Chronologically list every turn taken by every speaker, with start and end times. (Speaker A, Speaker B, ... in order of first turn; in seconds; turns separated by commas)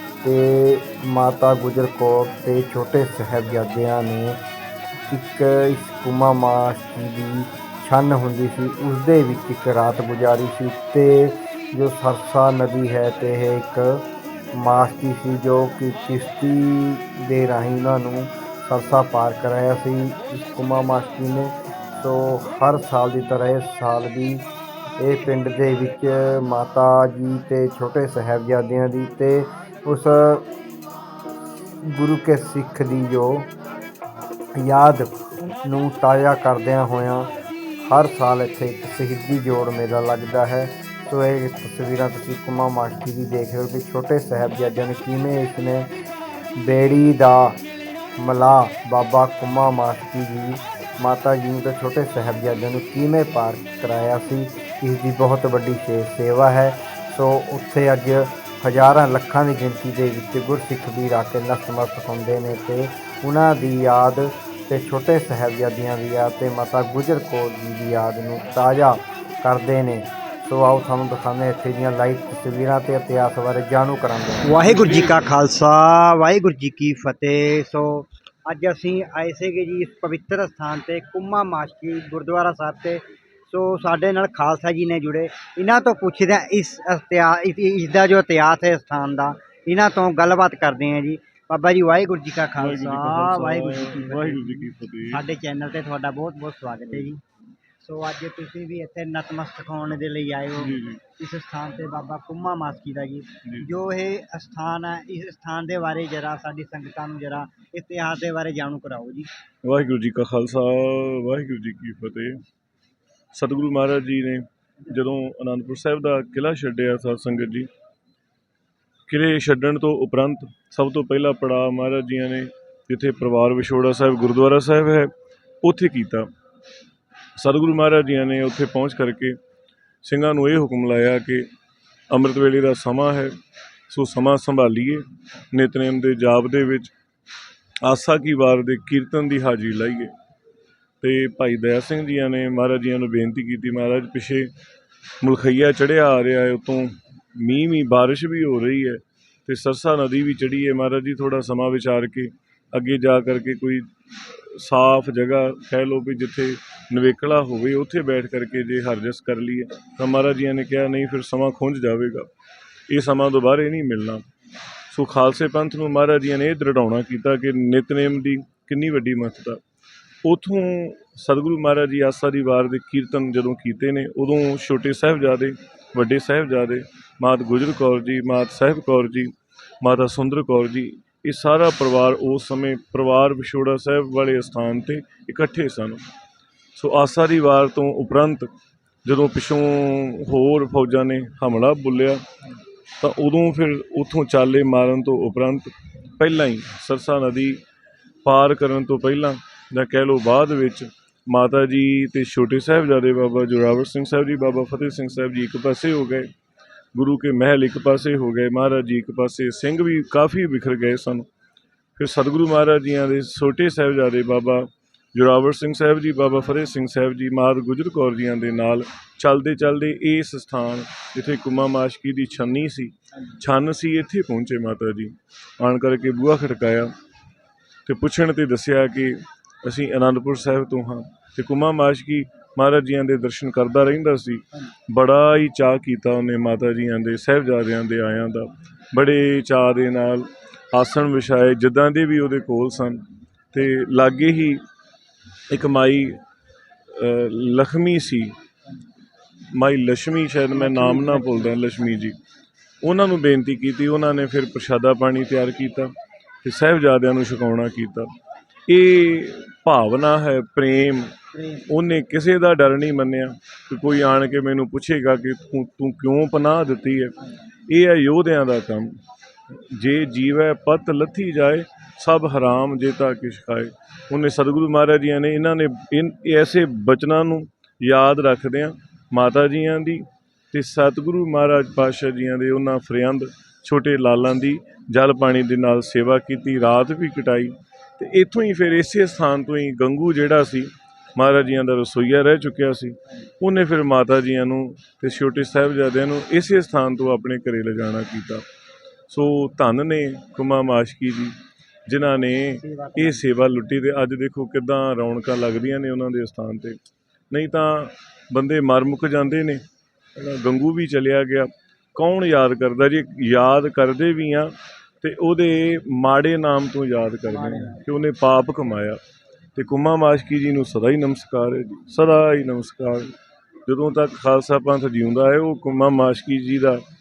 Speaker A: 0.2-4.4, Speaker A: 5.1-14.0, Speaker A: 14.6-24.5, Speaker A: 25.0-30.5, Speaker A: 31.8-33.5, Speaker A: 34.6-37.3, Speaker A: 37.8-45.9, Speaker A: 46.6-47.6, Speaker A: 48.2-74.7, Speaker B: 74.4-97.2, Speaker C: 92.6-95.2, Speaker B: 97.8-109.3, Speaker C: 100.6-101.0, Speaker C: 109.6-112.4, Speaker C: 113.3-117.7, Speaker C: 119.1-125.1, Speaker C: 125.6-126.3, Speaker C: 127.4-129.4, Speaker C: 130.0-131.5, Speaker C: 132.1-133.3, Speaker C: 133.9-136.9, Speaker C: 137.8-140.1, Speaker C: 141.0-144.5, Speaker C: 145.2-162.3, Speaker C: 162.9-164.2, Speaker C: 164.9-169.6, Speaker C: 170.2-186.0, Speaker C: 186.8-188.5, Speaker C: 189.1-192.2, Speaker C: 193.0-197.6, Speaker C: 198.2-206.3, Speaker C: 206.9-211.3, Speaker C: 212.0-226.9, Speaker C: 227.9-244.6, Speaker C: 245.5-246.2, Speaker C: 246.9-248.3, Speaker C: 249.5-252.2, Speaker B: 250.5-251.6, Speaker C: 252.8-258.1, Speaker C: 258.7-261.1, Speaker B: 261.3-261.7, Speaker C: 261.7-267.2, Speaker C: 267.7-269.0, Speaker C: 269.5-298.4, Speaker C: 299.1-301.4, Speaker C: 301.9-306.8, Speaker B: 302.6-303.3, Speaker C: 307.3-309.6, Speaker C: 310.2-319.0, Speaker B: 317.3-317.8, Speaker C: 319.6-323.1, Speaker C: 323.7-326.8